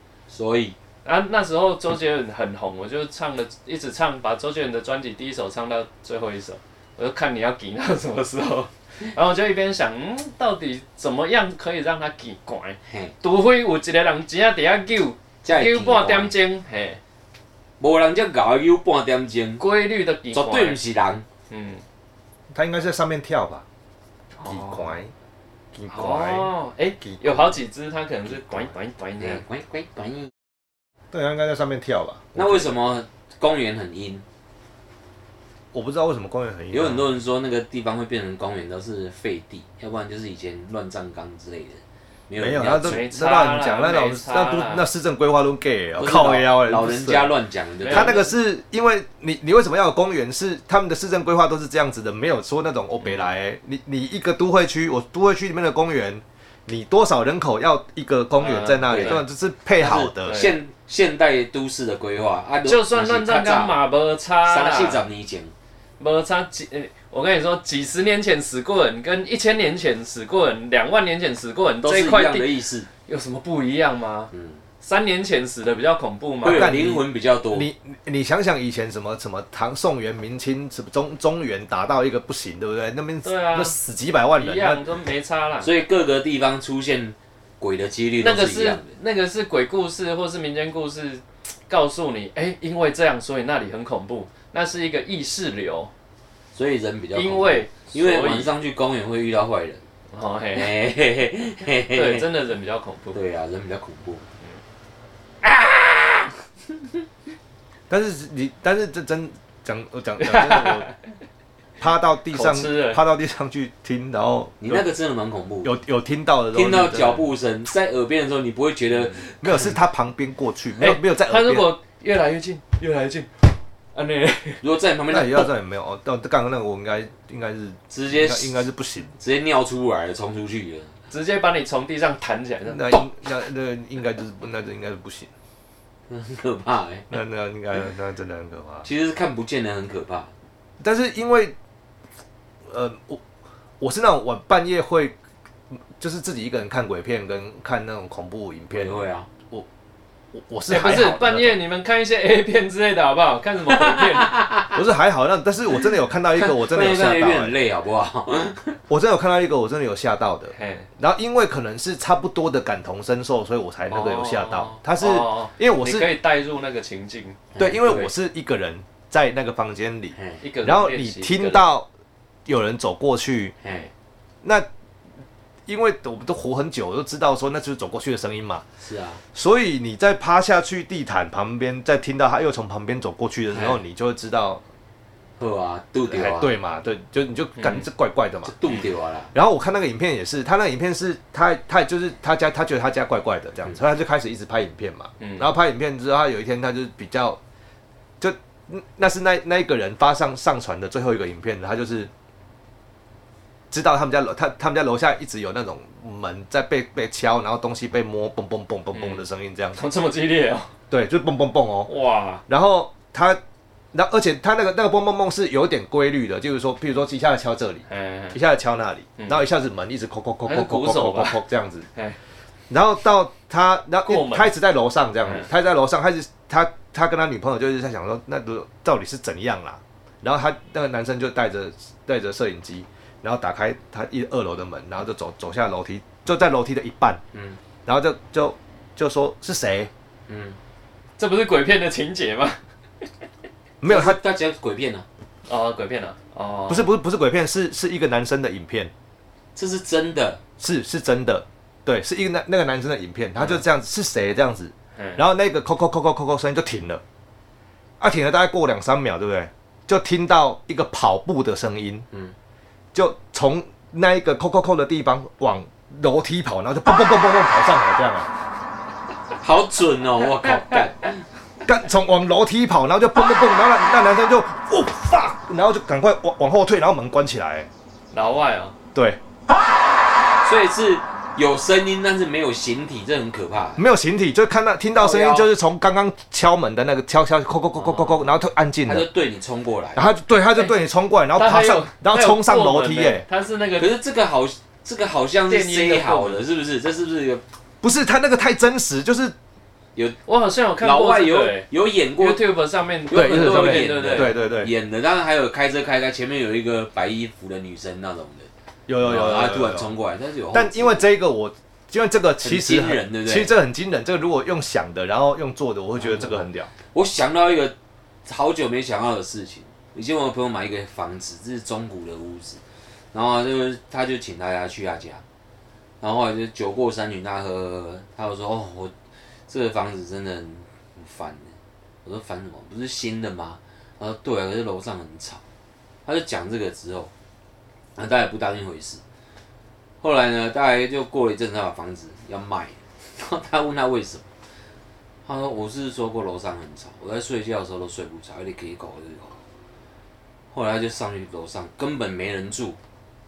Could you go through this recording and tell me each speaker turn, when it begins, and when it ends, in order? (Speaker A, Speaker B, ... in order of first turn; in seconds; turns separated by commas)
Speaker A: 0.3-0.8, Speaker B: 1.0-17.0, Speaker A: 12.9-13.1, Speaker A: 15.4-16.3, Speaker A: 17.8-19.6, Speaker B: 19.6-20.8, Speaker A: 20.3-21.3, Speaker B: 21.5-21.8, Speaker C: 22.5-23.6, Speaker B: 24.4-25.0, Speaker C: 24.4-25.1, Speaker C: 25.7-26.5, Speaker B: 25.9-29.4, Speaker C: 27.0-27.6, Speaker A: 29.2-30.3, Speaker C: 31.1-32.7, Speaker A: 32.4-34.2, Speaker C: 35.7-37.1, Speaker A: 36.7-43.1, Speaker C: 42.4-47.3, Speaker B: 42.8-44.9, Speaker A: 46.0-48.2, Speaker B: 47.8-48.3, Speaker C: 47.9-60.5, Speaker B: 58.4-59.2, Speaker A: 58.9-59.2, Speaker A: 59.8-63.8, Speaker B: 60.2-60.5, Speaker B: 62.7-65.0, Speaker A: 64.4-65.5, Speaker B: 66.0-74.3, Speaker A: 71.8-72.9, Speaker A: 74.3-74.6, Speaker B: 74.8-76.8, Speaker A: 76.4-77.7, Speaker C: 76.5-84.8, Speaker B: 83.2-83.8, Speaker B: 84.3-85.7, Speaker A: 85.6-88.9, Speaker B: 88.2-95.9, Speaker A: 96.5-99.8, Speaker B: 97.2-98.5, Speaker B: 100.1-100.7, Speaker A: 100.5-102.3, Speaker B: 101.9-103.2, Speaker A: 103.1-104.3, Speaker A: 105.4-106.3, Speaker C: 107.9-110.9, Speaker B: 110.2-111.0, Speaker C: 111.8-114.9, Speaker B: 112.3-113.0, Speaker A: 114.6-115.7, Speaker C: 115.6-117.3, Speaker A: 116.5-119.8, Speaker C: 119.4-121.7, Speaker B: 120.8-124.6, Speaker A: 124.6-125.5, Speaker C: 125.1-129.1, Speaker A: 127.9-128.6, Speaker A: 129.2-131.0, Speaker B: 131.1-133.0, Speaker C: 132.7-135.3, Speaker A: 136.1-137.1, Speaker C: 137.1-138.9, Speaker A: 138.8-140.3, Speaker C: 140.8-141.6, Speaker C: 142.7-143.2, Speaker C: 143.8-145.2, Speaker C: 146.0-149.7, Speaker A: 148.7-149.3, Speaker C: 150.3-151.6, Speaker B: 150.7-154.4, Speaker A: 153.9-154.8, Speaker C: 154.8-157.6, Speaker A: 156.4-158.8, Speaker C: 158.9-166.1, Speaker B: 160.5-160.9, Speaker B: 163.9-168.1, Speaker A: 167.6-168.1, Speaker C: 167.6-171.9, Speaker A: 170.2-170.4, Speaker B: 170.4-171.7, Speaker C: 172.5-173.6, Speaker A: 173.6-173.9, Speaker C: 174.4-174.7, Speaker C: 175.7-178.7, Speaker A: 178.8-179.2, Speaker C: 179.3-184.6, Speaker A: 183.5-183.8, Speaker A: 185.4-186.5, Speaker C: 186.1-188.6, Speaker B: 187.6-187.9, Speaker A: 188.5-189.3, Speaker C: 189.3-197.4, Speaker B: 195.2-195.4, Speaker C: 198.2-202.1, Speaker C: 203.7-210.0, Speaker B: 208.9-209.2, Speaker B: 209.8-210.7, Speaker C: 210.9-211.9, Speaker B: 211.9-212.4, Speaker C: 212.5-213.4, Speaker C: 213.9-221.9, Speaker B: 217.9-218.4, Speaker B: 219.2-219.4, Speaker B: 220.4-221.4, Speaker C: 222.7-237.2, Speaker B: 224.1-224.5, Speaker B: 225.2-225.5, Speaker A: 237.3-237.6, Speaker C: 237.8-239.9, Speaker A: 240.3-240.6, Speaker B: 241.2-242.6, Speaker C: 243.8-244.2, Speaker A: 243.8-245.1, Speaker B: 245.5-246.9, Speaker C: 246.7-248.9, Speaker A: 249.6-250.4, Speaker C: 250.6-257.0, Speaker B: 255.0-255.2, Speaker C: 258.0-262.1, Speaker C: 262.9-268.3, Speaker A: 269.4-271.2, Speaker C: 271.7-277.7, Speaker B: 278.1-278.7, Speaker C: 278.9-279.2, Speaker A: 280.4-283.8, Speaker C: 283.8-289.1, Speaker A: 285.0-285.5, Speaker A: 288.9-290.1, Speaker C: 290.0-293.3, Speaker B: 291.4-293.9, Speaker A: 293.8-297.4, Speaker B: 295.5-296.4, Speaker C: 297.8-299.4, Speaker B: 300.3-304.4, Speaker A: 300.8-302.4, Speaker A: 303.1-308.5, Speaker C: 303.1-304.7, Speaker C: 308.9-309.9, Speaker A: 309.0-311.1, Speaker C: 310.5-316.7, Speaker A: 312.4-313.5, Speaker A: 316.0-317.8, Speaker A: 318.3-322.6, Speaker A: 323.1-325.2, Speaker A: 326.0-328.9, Speaker A: 329.5-335.4, Speaker A: 336.1-337.1, Speaker A: 338.0-339.0, Speaker A: 340.0-344.3, Speaker A: 345.3-349.4, Speaker A: 350.5-352.8